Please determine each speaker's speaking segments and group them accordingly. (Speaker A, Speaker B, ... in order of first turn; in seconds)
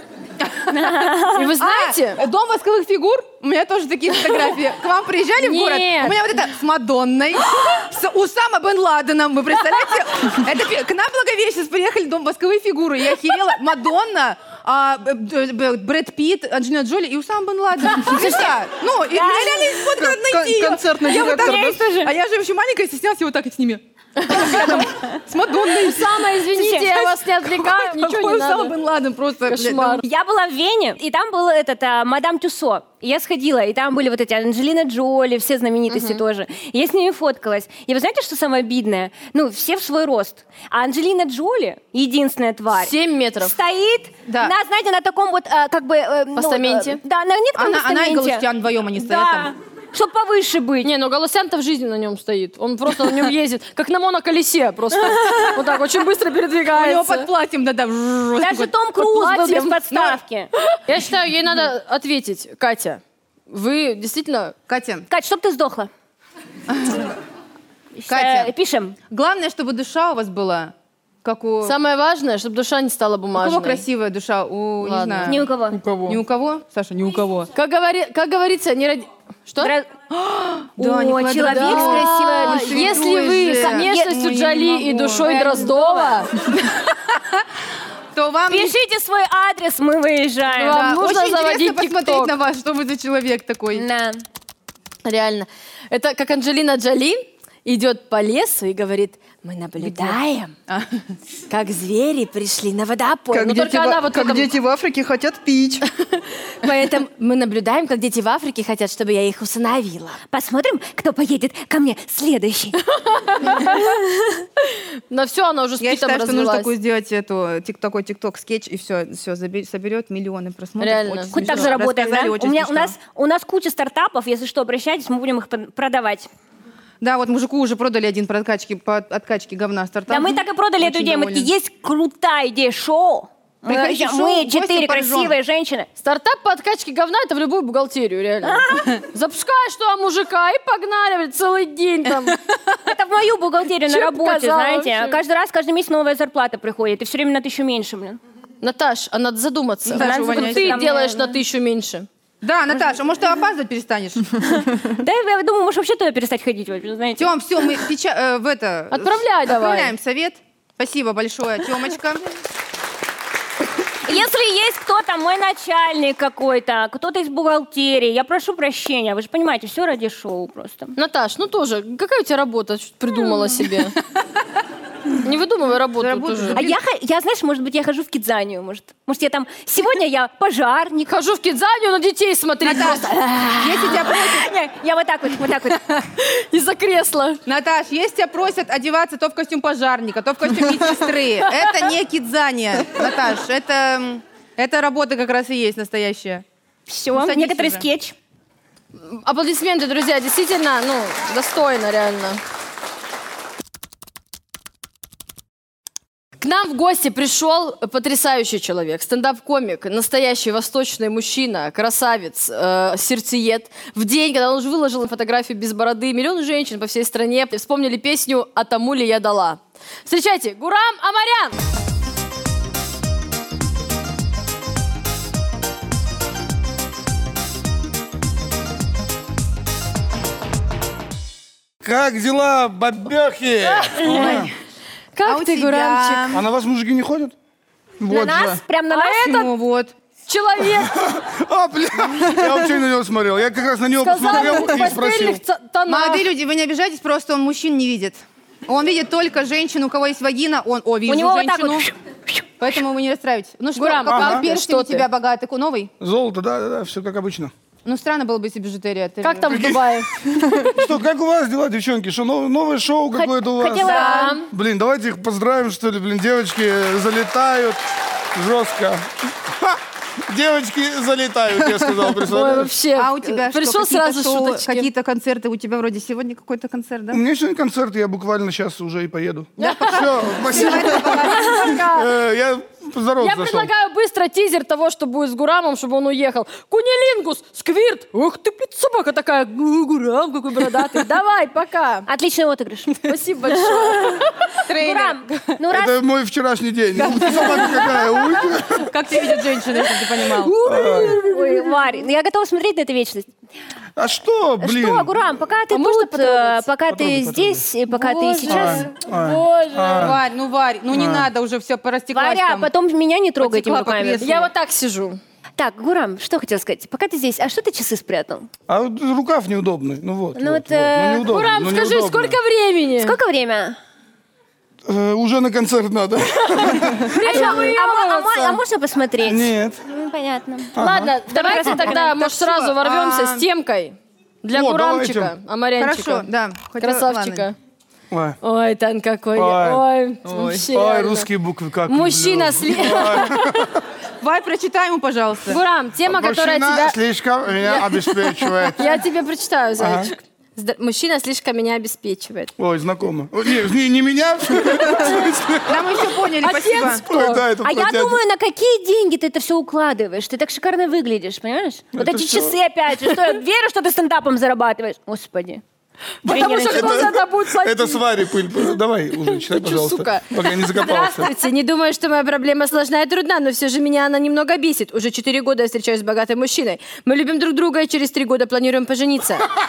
Speaker A: 0.7-1.5, 17.9-18.6, 19.1-20.0, 21.1-22.1, 24.3-25.2, 26.6-26.9, 30.0-50.9, 55.0-55.6, 58.4-60.5, 65.1-65.9, 68.0-69.0, 75.2-75.8, 79.6-79.9, 80.8-84.1, 85.2-86.3, 88.5-91.0, 93.8-94.2, 110.3-112.8, 113.4-114.5, 121.3-126.3, 130.1-135.9, 138.4-138.9, 142.8-148.2, 149.9-151.3, 154.4-157.8, 164.1-170.9, 176.5-181.1, 183.8-185.8, 196.9-198.2, 238.1-239.3, 251.1-252.4, 263.1-264.4, 292.1-294.2, 294.8-296.0, 300.4-303.3, 304.6-308.9, 312.1-314.3, 315.6-318.5, 320.4-321.3, 323.0-323.8, 327.2-330.8, 331.3-332.1, 357.6-365.6, 366.3-367.1
Speaker B: 1.3-2.2, 5.4-6.2, 24.2-24.9, 25.7-28.8, 29.5-30.0, 35.9-36.2, 42.8-43.5, 46.4-47.0, 50.8-57.3, 59.0-59.8, 60.7-64.5, 71.6-73.8, 74.8-75.4, 77.5-79.7, 81.4-86.3, 90.5-92.3, 95.0-100.5, 101.5-104.5, 106.5-110.2, 112.9-114.0, 114.7-116.7, 120.8-121.7, 136.0-142.4, 143.9-145.2, 148.6-152.1, 158.9-159.9, 171.0-174.0, 175.2-176.7, 181.1-184.0, 185.9-187.4, 199.1-202.4, 206.4-221.6, 233.8-234.5, 235.2-236.4, 238.9-239.5, 240.3-241.0, 244.0-246.3, 253.8-255.1, 259.2-260.7, 263.7-264.5, 272.3-274.9, 279.6-282.1, 283.2-292.1, 293.0-294.6, 301.3-301.8, 305.7-306.6, 307.9-310.1, 314.2-315.2, 321.2-323.2, 327.1-328.6, 330.8-336.3, 336.8-337.6, 338.4-341.3, 341.9-343.7, 345.5-347.0, 347.7-348.1, 348.8-352.5, 356.4-357.4, 366.2-368.0, 369.3-379.5
Speaker C: 1.6-23.8, 24.3-30.0, 44.3-44.5, 47.5-49.5, 56.7-58.7, 59.9-60.2, 64.7-65.1, 66.7-67.1, 68.1-68.5, 69.1-71.8, 73.3-75.5, 76.1-77.5, 80.2-85.3, 86.6-87.4, 88.1-88.7, 90.7-93.9, 99.8-100.1, 100.7-101.0, 115.8-123.0, 127.0-131.5, 133.7-135.3, 149.9-150.9, 152.4-154.5, 157.2-162.2, 176.0-176.8, 182.6-184.5, 187.5-196.4, 197.1-197.8, 234.1-234.4, 235.3-236.4, 239.2-239.9, 245.9-251.9, 252.6-255.9, 257.9-259.7, 272.9-277.2, 279.6-281.8, 294.7-295.6, 297.0-297.9, 298.9-300.6, 309.9-312.7, 313.4-314.5, 331.8-333.5, 335.8-337.4, 344.2-345.6, 355.7-357.0
Speaker D: 20.0-21.8, 75.7-76.2, 103.3-105.9, 238.0-238.6
Speaker E: 231.8-234.5, 236.3-237.3, 240.8-245.4, 254.1-254.5, 256.0-257.5, 259.5-267.8, 268.4-272.7, 277.1-283.7, 295.7-298.9, 300.6-301.2, 304.0-305.1, 306.9-307.6, 308.5-310.2, 310.9-311.3, 318.7-322.4, 324.9-327.8, 329.2-329.8, 330.8-331.1, 334.5-335.3, 338.1-338.4, 339.4-339.8, 340.4-343.8, 346.1-349.0, 349.8-350.1, 352.6-356.0, 357.1-358.2, 361.9-362.6, 366.3-371.3